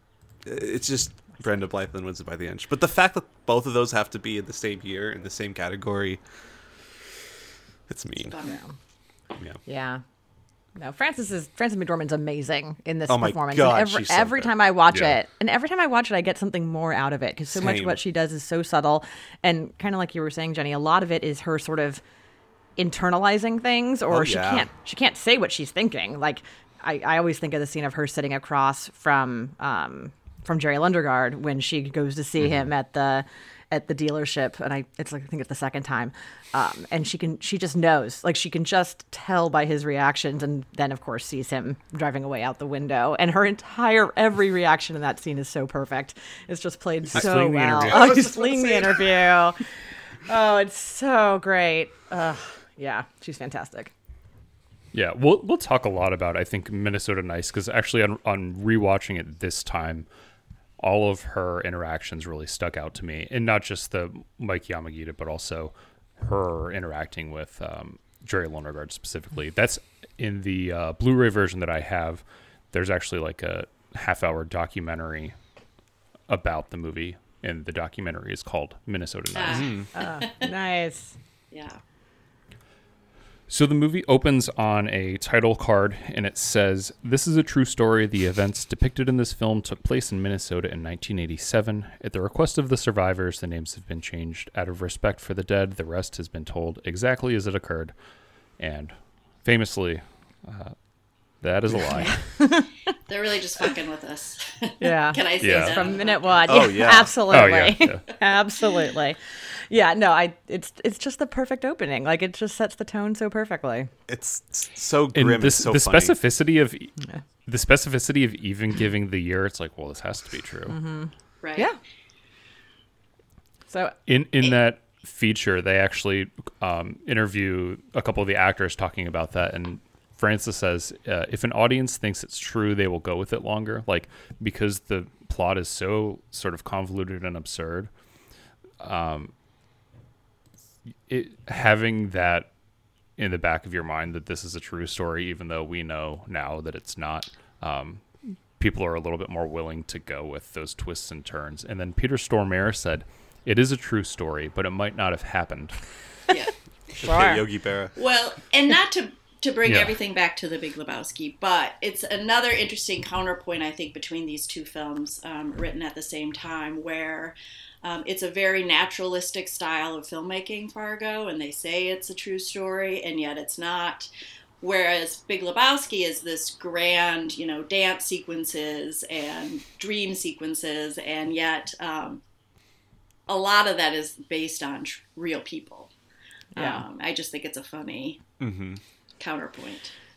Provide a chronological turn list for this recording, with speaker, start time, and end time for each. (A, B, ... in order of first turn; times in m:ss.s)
0:00.4-0:06.2 A
0:07.9-0:08.4 A
0:08.2-0:08.6 B
0:08.4-0:08.7 C
0:09.6-0:10.0 C
0:10.8-0:22.0 C
0:13.1-0:14.5 A
0:14.9-0:15.2 D
0:17.5-0:18.0 A
0:22.8-0:49.6 C
0:24.1-0:24.7 A
0:47.1-0:48.1 D
0:47.1-0:49.3 A
0:50.3-0:53.9 C
0:54.9-1:00.0 D
1:00.8-1:15.3 D
1:16.3-1:19.7 D
1:19.3-1:20.5 B
1:19.5-1:19.9 A
1:20.0-1:21.1 C
1:21.5-1:21.8 B
1:23.5-1:37.9 D
1:38.6-1:38.9 D
1:39.4-1:40.7 D
1:41.4-1:42.3 D
1:42.0-1:42.6 C
1:43.1-1:46.7 B
1:44.8-1:49.2 C
1:45.4-1:45.9 D
1:46.4-1:47.2 A
1:47.3-1:48.0 D
1:49.7-1:53.9 C
1:54.1-1:56.2 A
1:55.1-1:56.9 D
1:57.4-2:00.8 D
2:00.7-2:01.8 C
2:01.4-2:01.7 B
2:03.7-2:03.9 C
2:04.1-2:17.9 D
2:18.8-2:19.3 D
2:21.1-2:22.5 D
2:23.2-2:35.8 D
2:37.0-2:38.0 A
2:37.0-2:37.4 C
2:38.0-2:54.1 B
2:39.6-2:40.0 D
2:54.6-3:02.2 B
3:03.3-3:05.9 B
3:06.5-3:06.8 C
3:06.6-3:08.2 B
3:08.4-3:08.8 A
3:09.2-3:09.9 B